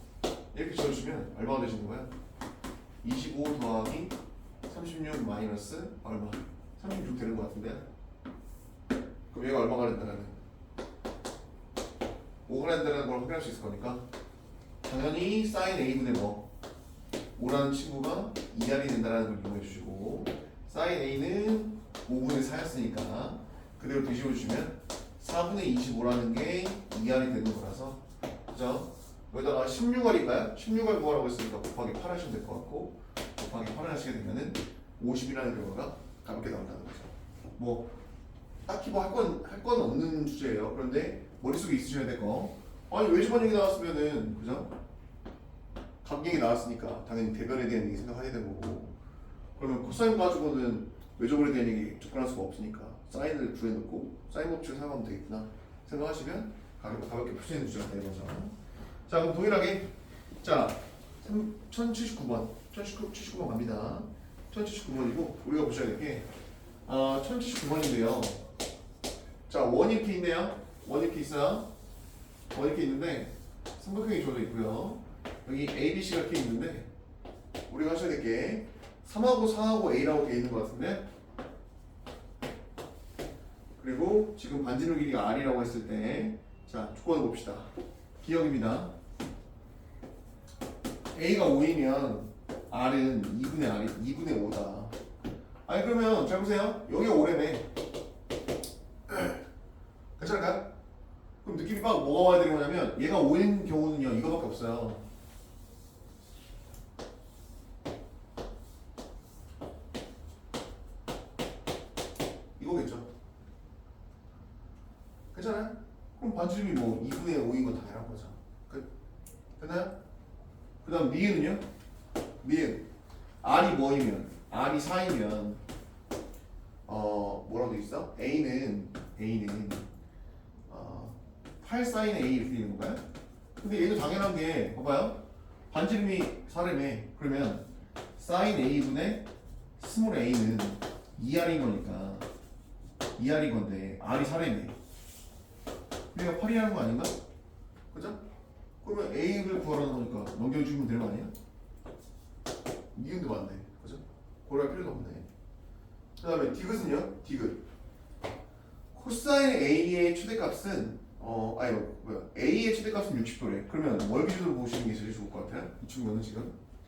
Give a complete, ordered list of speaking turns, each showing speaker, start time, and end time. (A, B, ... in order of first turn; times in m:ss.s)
0:00.5-0:02.1 A
0:03.0-0:04.2 A
0:04.7-0:07.8 A
0:09.3-0:10.4 A
0:12.5-0:14.0 A
0:14.8-0:16.5 A
0:17.4-0:37.9 A
0:38.7-0:44.7 A
0:46.0-0:49.0 A
0:49.6-0:58.6 A
0:59.1-1:06.3 A
1:06.8-1:08.4 A
1:09.5-1:11.7 A
1:12.5-1:16.9 A
1:17.7-1:21.0 A
1:23.8-1:28.9 A
1:31.1-1:34.9 A
1:35.7-1:37.7 A
1:39.1-1:39.4 A
1:40.2-1:40.7 A
1:41.4-1:45.0 A
1:52.6-1:53.1 A
1:55.3-1:58.9 A
1:59.6-2:00.0 A
2:00.8-2:01.6 A
2:02.4-2:02.9 A
2:03.4-2:05.6 A
2:06.9-2:09.9 A
2:10.7-2:13.0 A
2:13.6-2:22.3 A
2:23.2-2:24.8 A
2:26.1-2:27.2 A
2:27.9-2:28.2 A
2:28.8-2:31.3 A
2:32.9-2:35.3 A
2:36.2-2:37.6 A
2:38.9-2:46.6 A